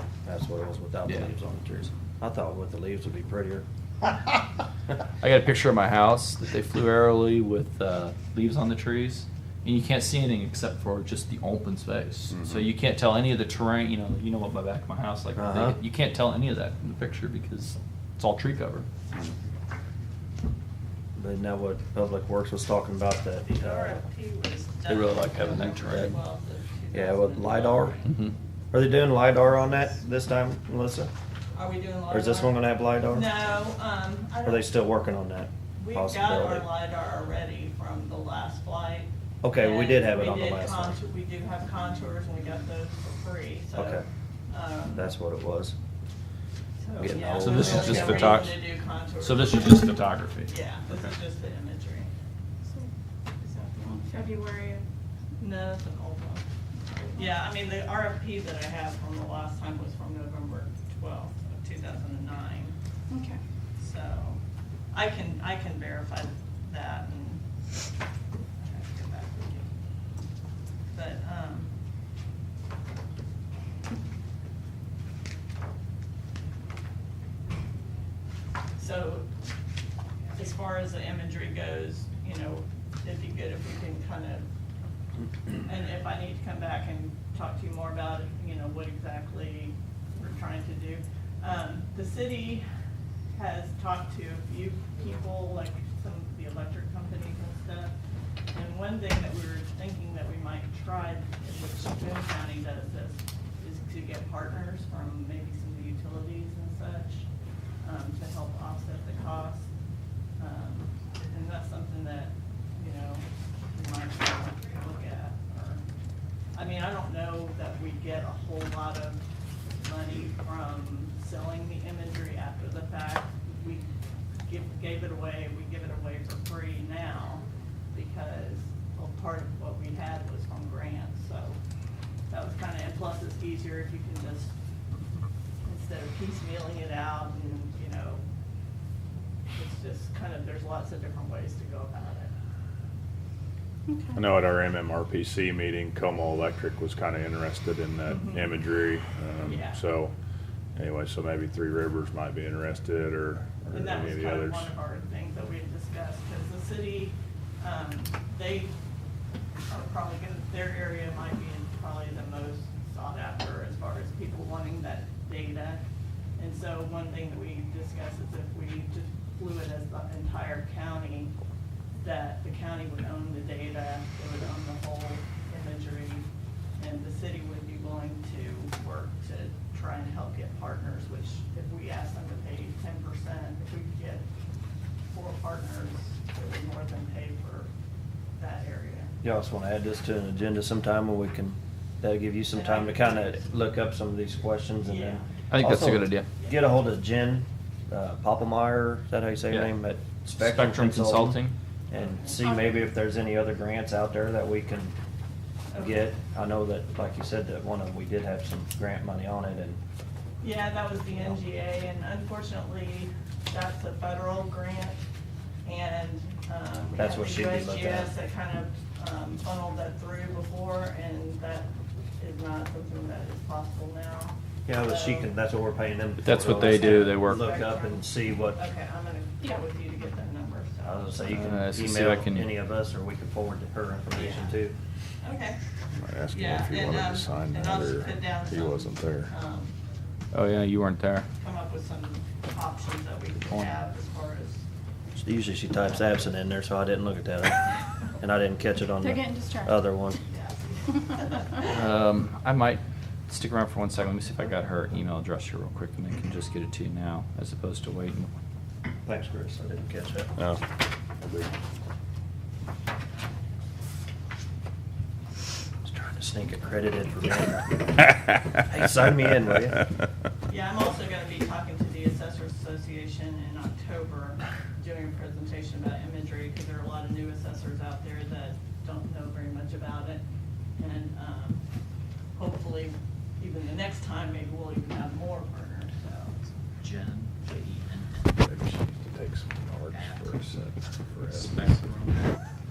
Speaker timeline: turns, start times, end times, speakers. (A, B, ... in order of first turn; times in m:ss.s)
0:00.2-0:04.1 A
0:05.2-0:18.9 B
0:12.3-0:12.7 C
0:15.4-0:15.8 A
0:21.2-0:24.0 A
0:23.4-0:28.1 D
0:24.9-0:26.2 B
0:26.9-0:28.0 A
0:28.1-0:28.3 B
0:28.7-0:31.1 A
0:31.6-0:34.7 D
0:32.1-0:33.3 A
0:34.4-0:36.7 A
0:35.8-0:45.1 D
0:39.4-0:41.0 A
0:43.8-0:44.1 A
0:44.9-0:45.8 A
0:46.8-0:52.1 D
0:47.0-0:48.5 A
0:47.4-0:48.6 B
0:49.2-0:51.1 B
0:53.4-0:54.8 E
0:55.4-0:56.4 D
0:57.1-1:02.8 D
1:03.1-1:03.4 E
1:03.8-1:04.4 D
1:04.9-1:07.4 D
1:08.6-1:09.7 D
1:10.9-1:11.7 D
1:18.8-1:19.3 D
1:20.4-1:24.5 D
1:25.6-1:32.6 D
1:33.3-1:37.9 D
1:38.5-1:47.3 D
1:47.8-1:49.7 D
1:50.4-1:55.8 D
1:56.5-1:59.2 D
1:59.8-2:03.9 D
2:04.5-2:11.6 D
2:12.3-2:14.5 D
2:15.6-2:18.2 D
2:19.5-2:22.3 D
2:23.9-2:24.2 E
2:24.1-2:30.1 C
2:28.1-2:28.6 D
2:29.4-2:29.8 D
2:30.8-2:34.7 C
2:33.7-2:38.8 D
2:39.7-2:45.8 D
2:46.4-2:51.3 D
2:52.0-2:56.3 D
2:56.8-3:04.3 D
3:05.1-3:07.7 D
3:08.4-3:09.2 D
3:09.2-3:21.4 A
3:12.5-3:13.5 D
3:14.8-3:15.4 D
3:15.5-3:16.3 B
3:16.4-3:16.7 D
3:20.4-3:21.6 B
3:21.9-3:25.0 A
3:22.0-3:22.4 D
3:22.4-3:22.8 E
3:25.7-3:26.1 D
3:25.8-3:29.8 A
3:30.4-3:35.0 D
3:35.6-3:45.3 D
3:37.0-3:38.1 A
3:44.7-3:48.6 A
3:46.2-3:47.5 B
3:46.5-3:51.2 D
3:50.8-3:54.8 A
3:51.3-3:52.6 B
3:54.1-3:54.6 D
3:55.2-3:55.6 D
3:55.9-3:59.3 C
3:56.3-3:59.8 D
4:00.3-4:01.3 B
4:01.4-4:04.7 D
4:03.4-4:03.7 B
4:05.2-4:10.2 A
4:05.8-4:06.3 D
4:09.0-4:09.8 E
4:10.3-4:11.7 D
4:11.6-4:18.3 B
4:19.0-4:20.3 A
4:20.4-4:20.6 C
4:21.2-4:21.5 C
4:25.8-4:29.8 A
4:30.5-4:40.2 D
4:40.8-4:41.6 D
4:42.4-4:46.4 D
4:46.8-4:48.4 B
4:48.4-4:51.8 C
4:49.9-4:50.4 B
4:51.2-4:52.4 B